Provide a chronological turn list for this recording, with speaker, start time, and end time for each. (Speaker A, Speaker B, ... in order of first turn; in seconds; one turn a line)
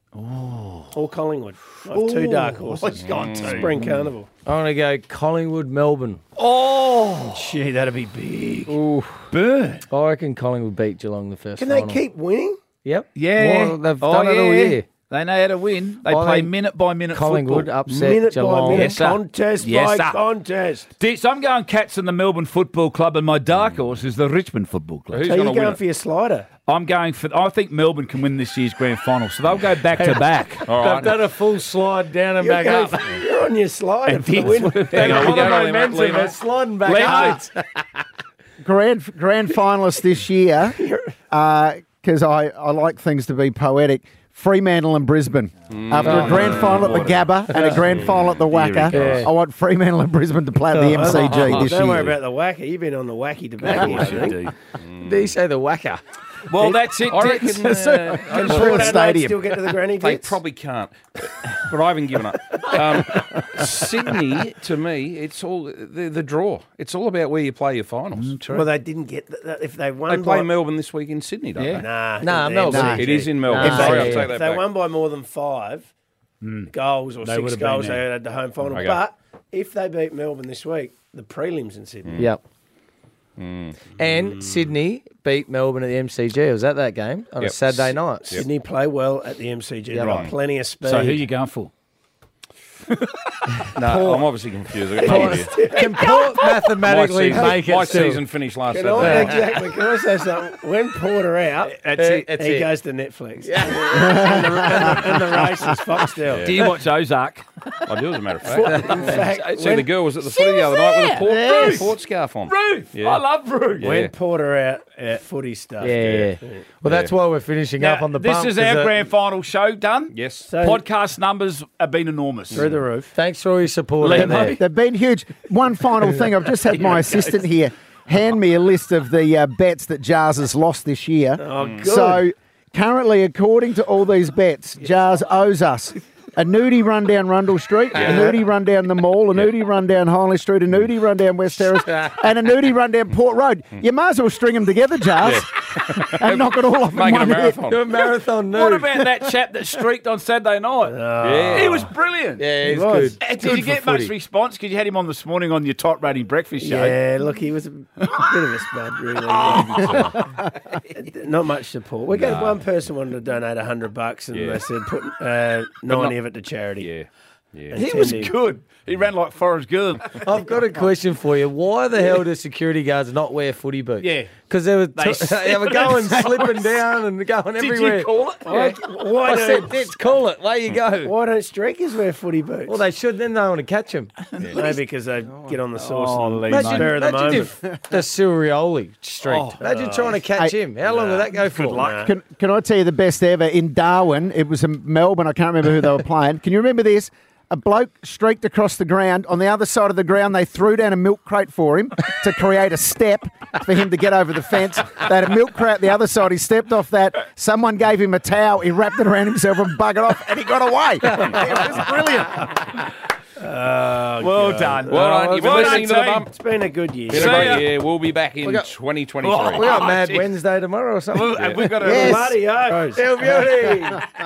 Speaker A: 0.1-0.9
Speaker B: 0.9-4.3
Speaker A: 1.8-4.1
Speaker C: 3.0-3.7
Speaker D: 4.4-6.2
Speaker A: 6.4-7.6
Speaker B: 7.3-8.8
Speaker A: 8.9-9.8
Speaker D: 9.9-12.0
Speaker B: 11.6-12.6
Speaker D: 12.8-14.8
Speaker A: 13.1-17.7
Speaker D: 16.1-16.5
Speaker D: 17.1-19.0
Speaker B: 17.9-20.9
Speaker A: 18.7-20.2
Speaker A: 21.0-25.3
Speaker C: 25.1-25.8
Speaker B: 25.3-26.5
Speaker A: 26.7-30.6
Speaker D: 29.9-33.2
Speaker C: 30.7-31.2
Speaker B: 32.4-35.4
Speaker A: 34.0-35.6
Speaker D: 34.8-37.8
Speaker C: 34.9-36.4
Speaker A: 36.8-37.4
Speaker E: 38.6-52.1
Speaker B: 40.8-41.1
Speaker C: 45.7-47.0
Speaker D: 46.0-46.6
Speaker A: 46.0-49.3
Speaker D: 48.9-49.2
Speaker D: 50.7-51.8
Speaker B: 51.0-54.5
Speaker A: 51.5-52.1
Speaker A: 53.6-54.5
Speaker C: 54.8-55.3
Speaker D: 55.0-56.0
Speaker A: 56.5-58.8
Speaker C: 57.0-58.8
Speaker E: 57.5-59.6
Speaker B: 58.3-60.4
Speaker C: 60.0-68.3
Speaker A: 63.2-63.6
Speaker A: 68.1-68.7
Speaker B: 68.5-70.5
Speaker C: 70.1-71.8
Speaker A: 71.6-71.8
Speaker B: 71.7-75.9
Speaker D: 72.2-74.3
Speaker E: 72.7-74.0
Speaker C: 73.0-74.6
Speaker A: 76.4-76.7
Speaker B: 76.7-82.3
Speaker A: 77.2-78.0
Speaker C: 78.7-79.0
Speaker C: 83.4-83.8
Speaker D: 84.0-88.4
Speaker B: 84.0-84.7
Speaker C: 87.4-88.5
Speaker B: 88.3-91.3
Speaker A: 90.0-90.3
Speaker A: 90.8-91.7
Speaker A: 92.9-94.2
Speaker C: 93.7-95.5
Speaker A: 95.0-95.5
Speaker B: 95.0-96.2
Speaker D: 95.0-98.2
Speaker A: 96.0-96.6
Speaker C: 96.8-99.5
Speaker B: 97.3-97.6
Speaker B: 98.7-106.7
Speaker D: 99.0-99.5
Speaker A: 101.7-102.3
Speaker D: 101.9-102.7
Speaker D: 103.4-105.0
Speaker E: 104.0-104.5
Speaker C: 106.3-106.6
Speaker A: 106.4-107.5
Speaker C: 107.8-113.2
Speaker B: 108.4-109.9
Speaker A: 108.6-109.7
Speaker A: 110.2-113.9
Speaker C: 113.8-114.1
Speaker B: 113.8-116.6
Speaker D: 115.8-119.0
Speaker C: 116.8-117.1
Speaker A: 117.8-122.7
Speaker C: 120.1-120.5
Speaker B: 120.5-120.8
Speaker B: 122.5-123.1
Speaker D: 123.1-124.6
Speaker A: 124.0-124.6
Speaker E: 124.1-147.6
Speaker B: 131.4-132.2
Speaker C: 131.6-131.8
Speaker C: 137.9-138.3
Speaker B: 138.0-138.3
Speaker C: 145.2-147.8
Speaker D: 147.7-148.9
Speaker A: 148.5-152.5
Speaker B: 150.8-151.9
Speaker C: 151.2-151.9
Speaker D: 152.4-154.1
Speaker B: 152.6-153.2
Speaker A: 153.2-157.0
Speaker B: 156.6-166.9
Speaker A: 158.0-158.3
Speaker A: 159.2-160.2
Speaker C: 162.2-162.5
Speaker C: 164.3-164.6
Speaker C: 166.8-167.8
Speaker B: 167.7-168.4
Speaker A: 167.7-170.3
Speaker D: 170.2-178.1
Speaker A: 174.0-174.3
Speaker A: 174.9-176.8
Speaker A: 177.6-178.8
Speaker B: 178.4-179.9
Speaker D: 179.2-181.1
Speaker B: 181.0-182.8
Speaker D: 182.7-184.7
Speaker A: 184.3-184.6
Speaker B: 184.4-187.6
Speaker A: 185.8-187.4
Speaker D: 186.5-191.9
Speaker A: 189.2-189.6
Speaker B: 189.6-190.2
Speaker B: 190.8-192.2
Speaker E: 192.0-212.5
Speaker B: 213.4-217.6
Speaker A: 214.2-216.2
Speaker C: 214.9-216.3
Speaker A: 217.1-217.7
Speaker C: 217.1-219.6
Speaker A: 219.2-220.3
Speaker D: 219.5-222.3
Speaker A: 221.1-222.3
Speaker C: 221.4-221.6
Speaker B: 221.8-223.1
Speaker D: 222.9-224.0